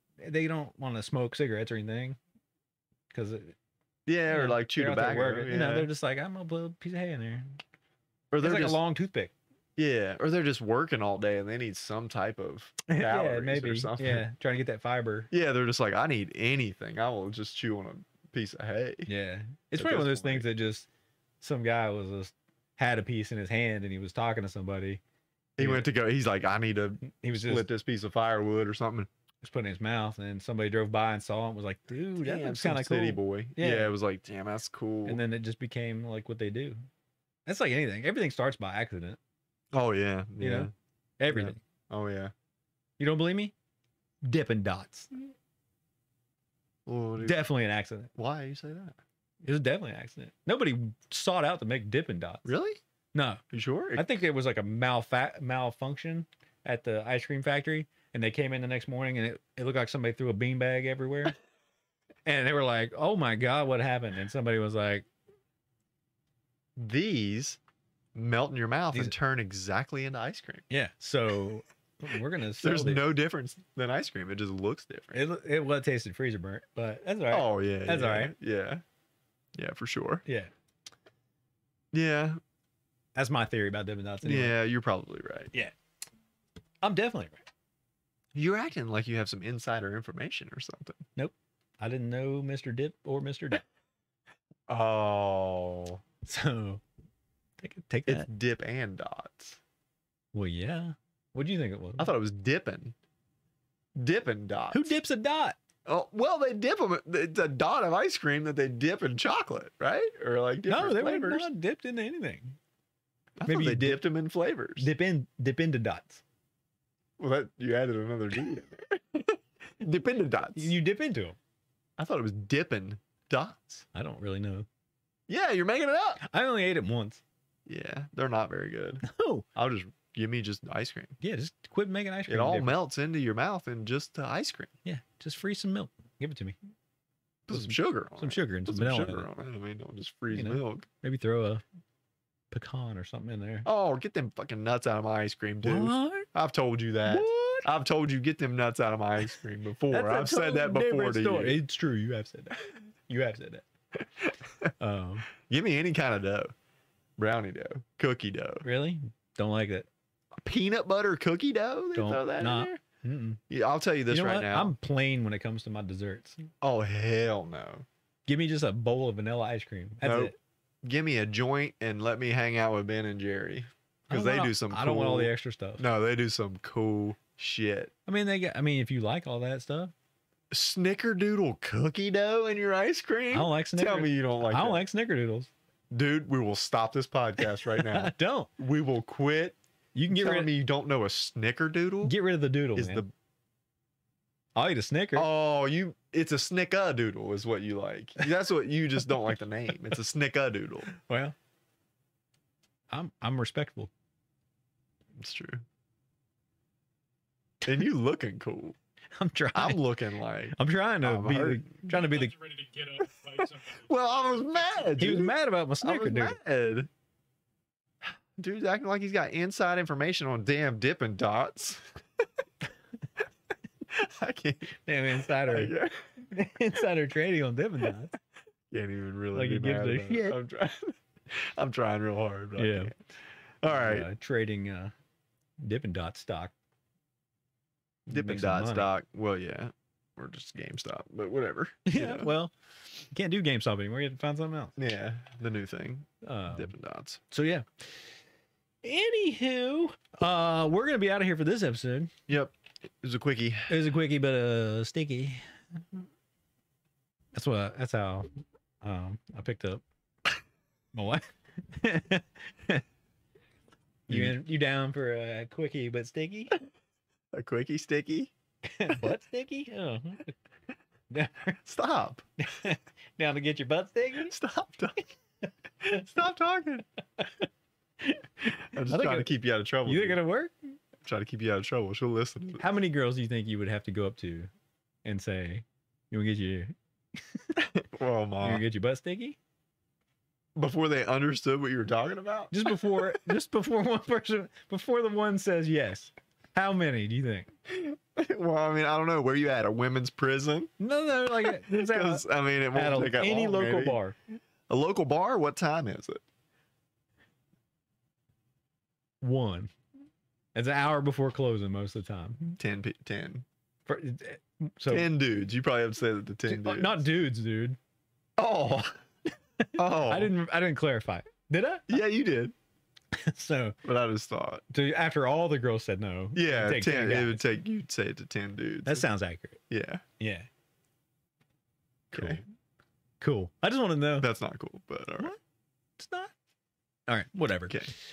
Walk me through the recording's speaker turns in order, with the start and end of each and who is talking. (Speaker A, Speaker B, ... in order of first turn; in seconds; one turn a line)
Speaker A: 0.2-2.2
Speaker A: 3.1-3.5
Speaker B: 4.0-5.9
Speaker A: 4.3-7.6
Speaker B: 8.3-8.8
Speaker A: 8.4-9.3
Speaker B: 9.8-14.2
Speaker A: 12.9-15.3
Speaker B: 15.3-19.1
Speaker A: 19.1-20.9
Speaker B: 19.8-20.5
Speaker A: 21.4-25.0
Speaker B: 25.6-29.1
Speaker A: 25.6-25.9
Speaker A: 27.0-27.7
Speaker A: 29.4-33.9
Speaker B: 32.2-35.2
Speaker A: 35.0-36.9
Speaker A: 37.5-39.2
Speaker B: 39.7-40.7
Speaker A: 40.4-41.6
Speaker B: 41.3-42.3
Speaker A: 43.0-43.5
Speaker A: 44.2-45.3
Speaker B: 46.9-47.5
Speaker A: 47.2-48.1
Speaker B: 48.1-49.0
Speaker A: 49.4-52.5
Speaker B: 52.4-52.8
Speaker A: 53.1-53.4
Speaker B: 53.5-54.2
Speaker A: 53.9-61.4
Speaker A: 62.2-65.0
Speaker B: 66.8-67.6
Speaker B: 68.1-70.6
Speaker A: 70.7-73.0
Speaker B: 72.6-75.2
Speaker A: 75.1-78.3
Speaker B: 77.3-78.8
Speaker B: 79.5-80.2
Speaker A: 80.2-80.5
Speaker B: 81.9-82.4
Speaker A: 83.1-84.5
Speaker B: 84.2-85.5
Speaker A: 86.8-87.4
Speaker B: 88.3-91.0
Speaker A: 91.2-93.6
Speaker B: 94.7-96.0
Speaker A: 96.2-96.8
Speaker A: 97.6-98.3
Speaker B: 98.1-99.6
Speaker A: 100.3-102.1
Speaker B: 102.0-102.9
Speaker B: 104.0-104.9
Speaker A: 104.7-105.6
Speaker B: 105.8-111.5
Speaker A: 110.7-112.6
Speaker B: 113.4-114.9
Speaker A: 113.5-114.0
Speaker A: 114.8-116.2
Speaker B: 117.2-120.7
Speaker A: 120.5-121.4
Speaker B: 122.0-123.8
Speaker A: 123.9-124.7
Speaker B: 125.3-126.2
Speaker A: 126.2-127.2
Speaker B: 127.7-129.0
Speaker A: 129.0-129.4
Speaker B: 129.5-131.2
Speaker A: 131.2-132.7
Speaker B: 132.3-134.7
Speaker A: 134.8-136.6
Speaker B: 137.5-140.8
Speaker A: 137.5-139.3
Speaker A: 140.3-141.6
Speaker A: 142.5-143.7
Speaker B: 143.7-151.6
Speaker A: 145.6-146.3
Speaker A: 147.1-147.7
Speaker A: 149.9-153.7
Speaker B: 153.9-154.7
Speaker A: 154.8-155.3
Speaker B: 155.4-156.5
Speaker B: 157.2-158.7
Speaker A: 158.6-159.9
Speaker B: 160.4-162.8
Speaker A: 161.9-163.4
Speaker B: 163.5-164.7
Speaker A: 164.1-166.4
Speaker B: 166.6-167.8
Speaker A: 168.3-170.3
Speaker B: 170.0-177.9
Speaker A: 174.1-175.8
Speaker A: 178.1-179.9
Speaker B: 180.5-184.8
Speaker A: 183.3-185.5
Speaker B: 185.9-189.6
Speaker A: 187.6-188.5
Speaker A: 189.9-190.5
Speaker B: 190.1-192.2
Speaker A: 192.0-193.0
Speaker B: 192.7-193.1
Speaker A: 194.6-195.3
Speaker B: 195.1-200.9
Speaker A: 200.9-201.3
Speaker A: 202.9-203.9
Speaker B: 205.2-205.6
Speaker B: 207.6-208.8
Speaker A: 209.2-209.9
Speaker B: 209.5-211.8
Speaker A: 210.5-212.3
Speaker C: 211.9-215.0
Speaker B: 213.4-216.9
Speaker A: 215.0-216.3
Speaker B: 218.4-221.9
Speaker B: 223.9-224.8
Speaker A: 224.8-228.2
Speaker B: 225.3-226.0
Speaker B: 228.7-233.0
Speaker A: 229.3-230.4
Speaker A: 232.6-232.9
Speaker B: 233.6-234.1
Speaker A: 233.7-234.9
Speaker A: 235.6-236.5
Speaker B: 238.1-242.3
Speaker A: 238.1-238.9
Speaker A: 241.8-242.5
Speaker A: 243.1-244.8
Speaker B: 244.8-247.2
Speaker A: 246.2-246.7
Speaker A: 247.3-247.8
Speaker A: 248.8-252.1
Speaker B: 252.3-253.7
Speaker A: 253.7-255.4
Speaker A: 257.3-258.3
Speaker A: 258.8-259.8
Speaker A: 260.9-262.8
Speaker A: 264.1-266.6
Speaker B: 264.1-264.3
Speaker B: 267.3-268.3
Speaker A: 268.7-270.3
Speaker A: 271.1-271.6
Speaker B: 271.6-272.2
Speaker A: 272.4-274.3
Speaker B: 274.3-275.1
Speaker B: 275.8-276.9
Speaker B: 278.4-280.2
Speaker A: 278.9-279.3
Speaker A: 279.8-280.8
Speaker B: 281.0-282.7
Speaker A: 282.6-284.5
Speaker A: 285.0-286.7
Speaker B: 287.6-288.6
Speaker A: 288.4-289.4
Speaker B: 290.5-293.2
Speaker A: 292.5-297.5
Speaker B: 297.7-300.7
Speaker A: 300.8-304.1
Speaker B: 301.3-304.0
Speaker B: 304.7-306.2
Speaker A: 309.2-309.7
Speaker A: 310.5-312.6
Speaker B: 312.6-313.4
Speaker A: 313.9-315.1
Speaker B: 314.9-317.0
Speaker A: 316.5-317.8
Speaker B: 318.4-319.0
Speaker B: 319.7-320.3
Speaker A: 319.8-322.0
Speaker B: 321.9-322.5
Speaker A: 323.1-323.8
Speaker B: 323.8-324.6
Speaker A: 324.7-327.5
Speaker B: 326.3-329.1
Speaker A: 328.9-329.6
Speaker B: 329.7-330.0
Speaker A: 330.2-330.5
Speaker B: 332.1-332.4
Speaker A: 332.1-332.4
Speaker A: 333.2-334.3
Speaker B: 334.2-335.3
Speaker A: 336.0-336.3
Speaker A: 337.1-337.9